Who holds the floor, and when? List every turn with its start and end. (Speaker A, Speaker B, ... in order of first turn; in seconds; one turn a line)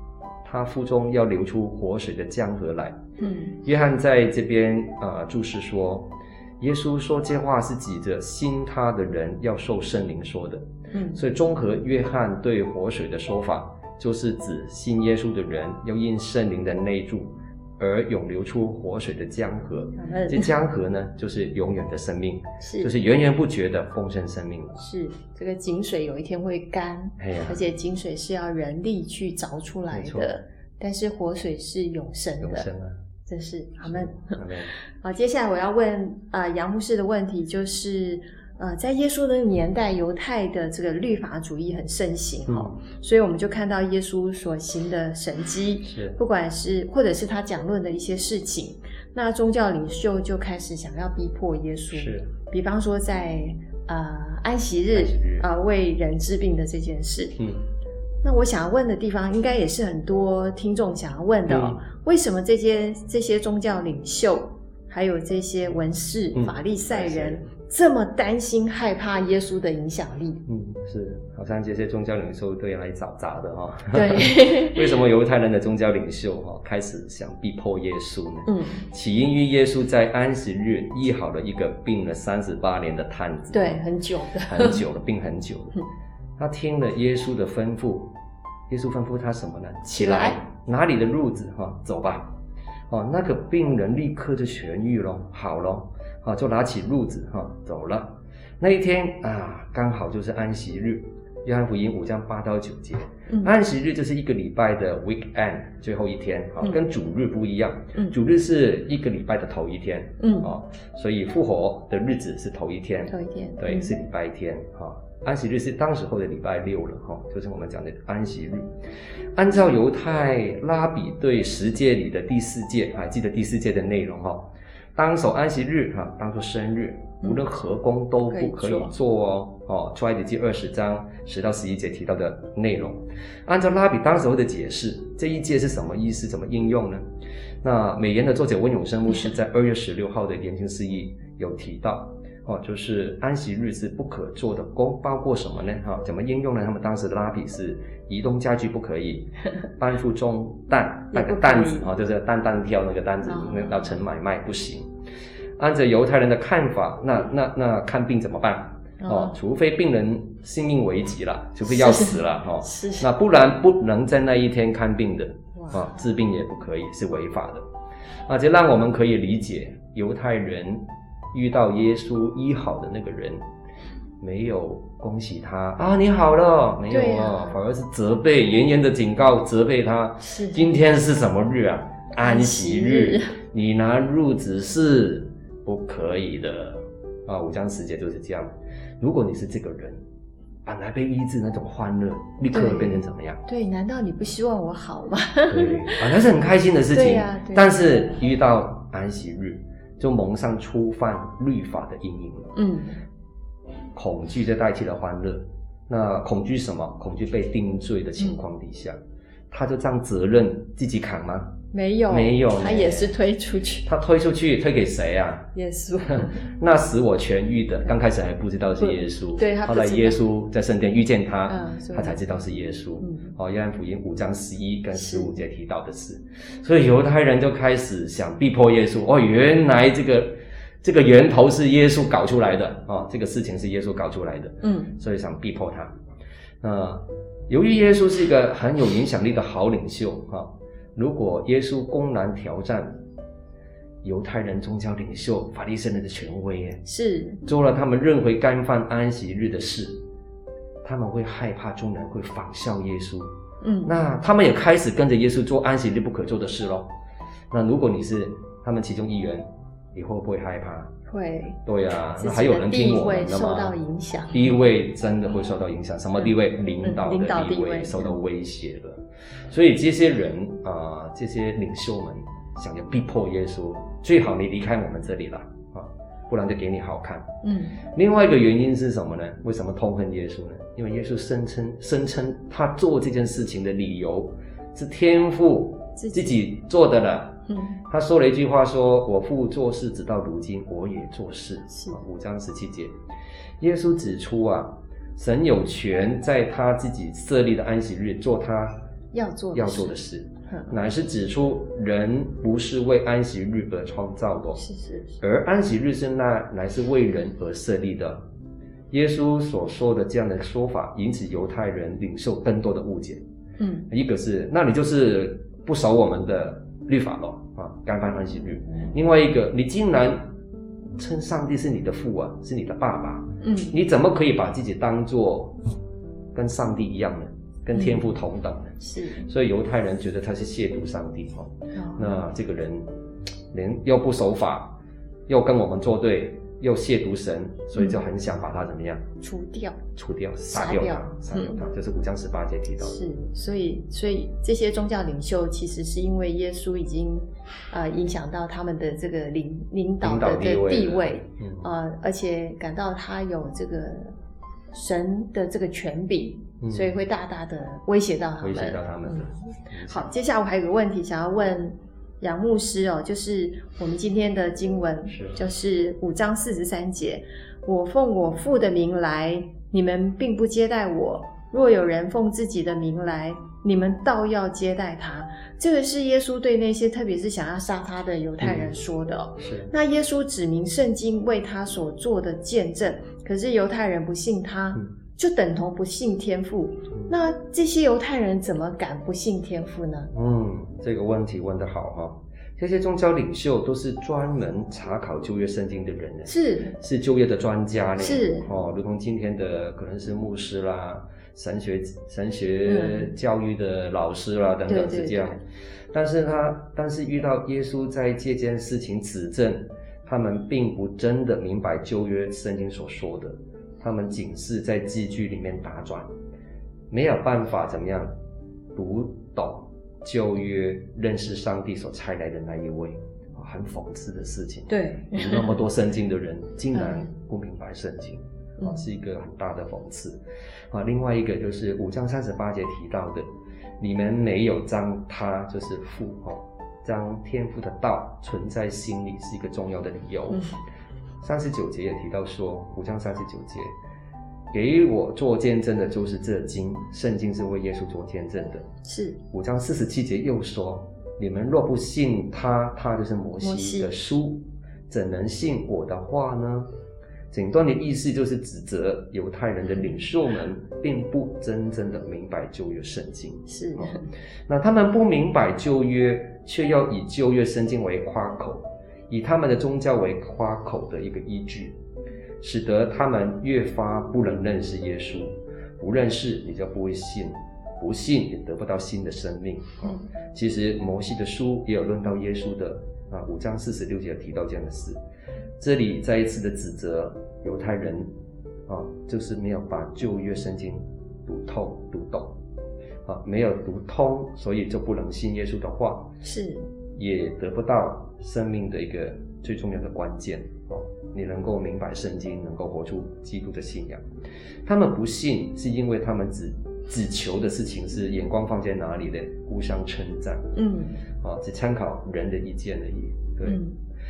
Speaker A: 0.4-3.0
Speaker B: 3.2-3.6
Speaker A: 3.6-24.8
Speaker B: 10.9-11.2
Speaker B: 20.0-20.5
Speaker B: 22.6-22.9
Speaker B: 24.8-32.7
Speaker A: 27.2-27.6
Speaker A: 29.9-30.3
Speaker A: 32.4-33.0
Speaker B: 33.3-34.4
Speaker A: 33.9-34.7
Speaker B: 35.0-57.4
Speaker A: 42.5-42.8
Speaker A: 45.8-46.2
Speaker A: 51.9-52.3
Speaker A: 54.9-55.5
Speaker A: 57.4-57.6
Speaker B: 58.2-70.4
Speaker A: 61.5-61.8
Speaker A: 66.4-67.5
Speaker A: 70.5-83.8
Speaker B: 73.9-74.8
Speaker B: 78.5-78.8
Speaker B: 83.5-84.8
Speaker A: 84.5-85.8
Speaker A: 86.4-88.1
Speaker A: 88.7-92.3
Speaker B: 89.9-90.4
Speaker A: 92.9-118.7
Speaker B: 103.3-103.5
Speaker B: 110.2-110.5
Speaker B: 113.1-114.0
Speaker A: 119.3-137.0
Speaker B: 128.3-128.9
Speaker A: 137.6-154.9
Speaker B: 151.1-151.9
Speaker B: 153.2-154.0
Speaker A: 155.6-167.7
Speaker B: 159.0-159.4
Speaker B: 161.7-163.1
Speaker A: 168.3-173.4
Speaker A: 174.2-190.0
Speaker B: 176.9-177.6
Speaker B: 180.2-180.7
Speaker B: 182.2-183.4
Speaker A: 190.7-193.4
Speaker B: 192.5-196.1
Speaker A: 195.5-202.5
Speaker B: 196.9-197.9
Speaker B: 202.6-203.0
Speaker A: 203.9-209.0
Speaker A: 209.5-211.6
Speaker B: 211.7-213.9
Speaker A: 212.1-213.1
Speaker A: 213.9-215.5
Speaker B: 215.5-216.4
Speaker A: 216.1-235.9
Speaker B: 218.8-220.2
Speaker B: 221.5-222.2
Speaker B: 223.0-223.3
Speaker B: 224.9-225.3
Speaker B: 234.6-234.9
Speaker A: 236.6-243.0
Speaker A: 244.0-246.8
Speaker B: 246.9-247.4
Speaker A: 247.5-250.0
Speaker A: 250.8-253.3
Speaker B: 253.6-254.0
Speaker A: 253.8-256.9
Speaker A: 257.5-260.9
Speaker B: 261.1-261.6
Speaker A: 261.7-263.8
Speaker B: 262.2-264.6
Speaker A: 264.3-277.3
Speaker B: 266.8-268.2
Speaker B: 277.4-277.8
Speaker A: 277.9-292.9
Speaker B: 286.0-286.4
Speaker B: 287.5-287.8
Speaker B: 291.7-292.0
Speaker A: 293.6-298.8
Speaker B: 299.1-299.9
Speaker A: 299.5-304.6
Speaker B: 300.5-300.7
Speaker B: 304.6-305.2
Speaker A: 305.2-308.2
Speaker A: 308.9-313.2
Speaker B: 313.6-313.9
Speaker A: 313.9-320.3
Speaker A: 321.0-325.6
Speaker B: 323.4-323.7
Speaker A: 326.4-328.7
Speaker B: 327.8-328.0
Speaker B: 328.8-329.3
Speaker A: 329.2-332.9
Speaker B: 331.7-332.1
Speaker A: 333.5-334.8
Speaker A: 335.3-339.0
Speaker B: 339.2-339.8
Speaker A: 340.0-343.0
Speaker B: 340.5-341.6
Speaker B: 342.8-354.1
Speaker A: 350.0-351.7
Speaker B: 354.7-359.3
Speaker A: 356.6-356.9
Speaker A: 358.4-360.1
Speaker B: 359.9-390.1
Speaker A: 365.1-365.4
Speaker A: 378.4-378.7
Speaker A: 379.4-379.7
Speaker A: 390.1-405.4
Speaker B: 396.3-396.8
Speaker B: 398.0-398.4
Speaker B: 402.6-403.1
Speaker B: 404.7-405.4
Speaker A: 405.9-416.1
Speaker A: 416.9-418.1
Speaker A: 418.8-430.2
Speaker B: 424.7-425.6
Speaker B: 426.7-427.1
Speaker A: 430.7-433.3
Speaker A: 433.8-440.5
Speaker B: 440.3-440.6
Speaker A: 441.2-443.7
Speaker A: 444.5-448.7
Speaker B: 448.8-449.2
Speaker A: 449.3-456.7
Speaker B: 453.4-453.9
Speaker A: 457.3-471.8
Speaker B: 463.5-464.1
Speaker A: 472.4-485.0
Speaker A: 485.6-488.1
Speaker A: 488.7-492.4
Speaker A: 493.1-496.2
Speaker B: 496.2-496.7
Speaker A: 497.0-504.0
Speaker A: 504.6-510.5
Speaker B: 510.6-511.0
Speaker A: 511.2-513.6
Speaker B: 513.5-513.8